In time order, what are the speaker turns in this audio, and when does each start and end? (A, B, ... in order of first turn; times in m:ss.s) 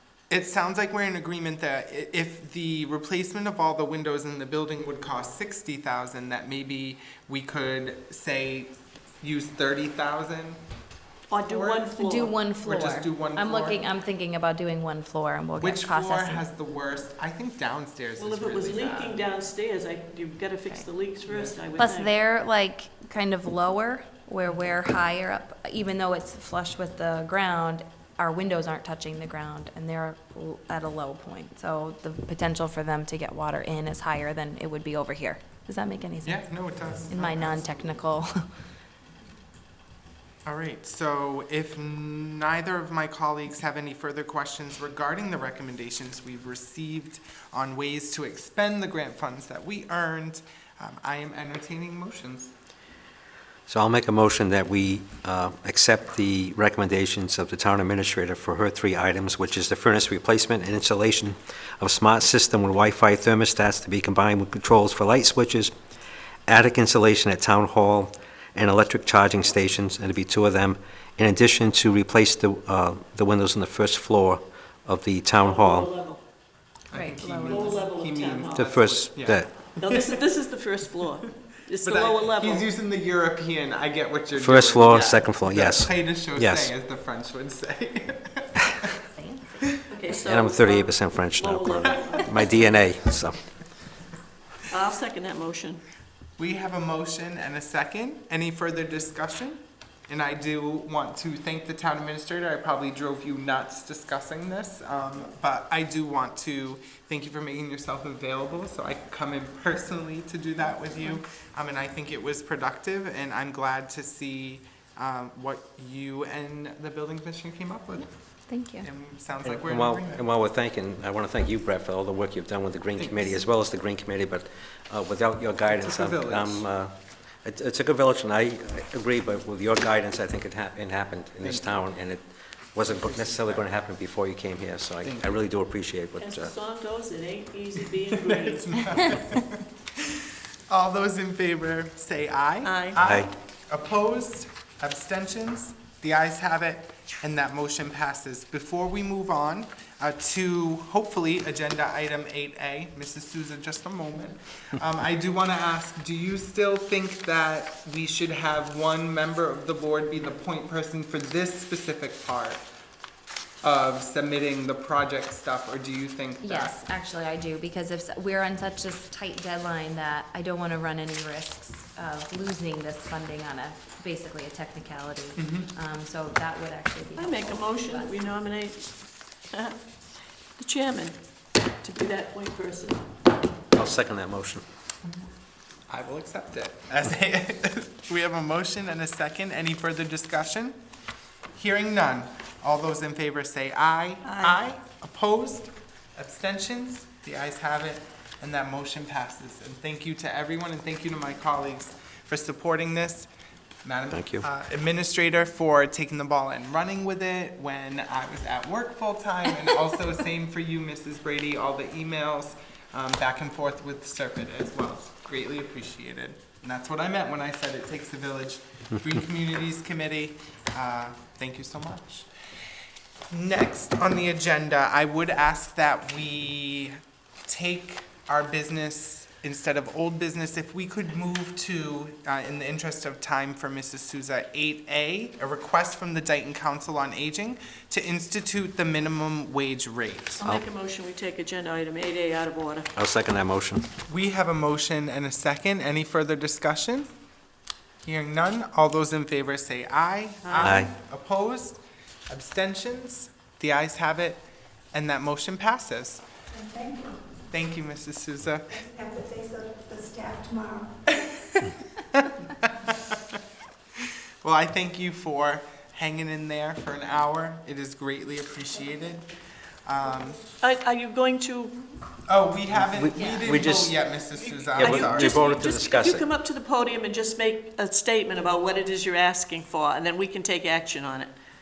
0:00.3-0:10.6 A
0:11.3-0:12.3 B
0:11.4-0:11.9 A
0:12.0-0:16.4 C
0:12.6-0:13.8 A
0:15.6-0:19.2 A
0:18.2-0:22.1 B
0:21.3-0:21.6 A
0:21.8-0:36.5 C
0:36.2-0:37.7 A
0:37.1-0:38.3 C
0:40.4-0:52.5 A
0:53.7-1:05.7 D
1:06.5-1:15.9 D
1:15.4-1:16.2 B
1:16.9-1:20.2 A
1:16.9-1:17.8 C
1:17.5-1:18.7 B
1:18.5-1:19.5 D
1:19.8-1:22.7 B
1:21.8-1:28.9 A
1:24.4-1:26.7 D
1:24.9-1:25.2 B
1:29.1-1:29.6 C
1:29.9-1:32.8 B
1:30.2-1:33.4 D
1:34.7-1:35.8 B
1:36.4-1:58.1 A
1:58.0-1:58.9 C
1:58.8-2:00.2 A
1:59.4-2:16.5 D
2:03.0-2:03.4 A
2:05.7-2:06.6 A
2:11.4-2:11.7 A
2:12.9-2:13.7 A
2:15.0-2:15.4 A
2:16.2-2:18.8 B
2:18.1-2:42.6 A
2:22.6-2:23.0 B
2:23.0-2:23.3 D
2:43.6-2:46.8 A
2:46.4-2:58.1 C
2:55.4-2:55.7 A
2:57.2-2:58.9 B
2:59.5-2:59.8 B
3:00.6-3:01.2 B
3:01.8-3:03.0 B
3:03.7-3:04.6 D
3:05.9-3:10.8 A
3:11.5-3:23.3 A
3:14.2-3:14.5 B
3:23.8-3:42.3 A
3:24.1-3:24.4 D
3:43.3-3:46.9 A
3:47.4-4:00.4 A
4:00.4-4:02.9 B
4:03.0-4:03.8 D
4:04.1-4:07.1 A
4:08.0-4:16.2 A
4:10.4-4:10.8 B
4:10.6-4:10.9 D
4:16.5-4:17.3 E
4:17.5-4:18.8 A
4:18.7-4:21.0 E
4:21.5-4:23.3 A
4:24.4-4:29.2 A
4:29.8-4:30.4 A
4:30.6-4:31.8 B
4:32.3-4:35.4 A
4:32.7-4:33.9 D
4:33.1-4:33.9 C
4:34.6-4:41.3 B
4:34.7-4:36.3 D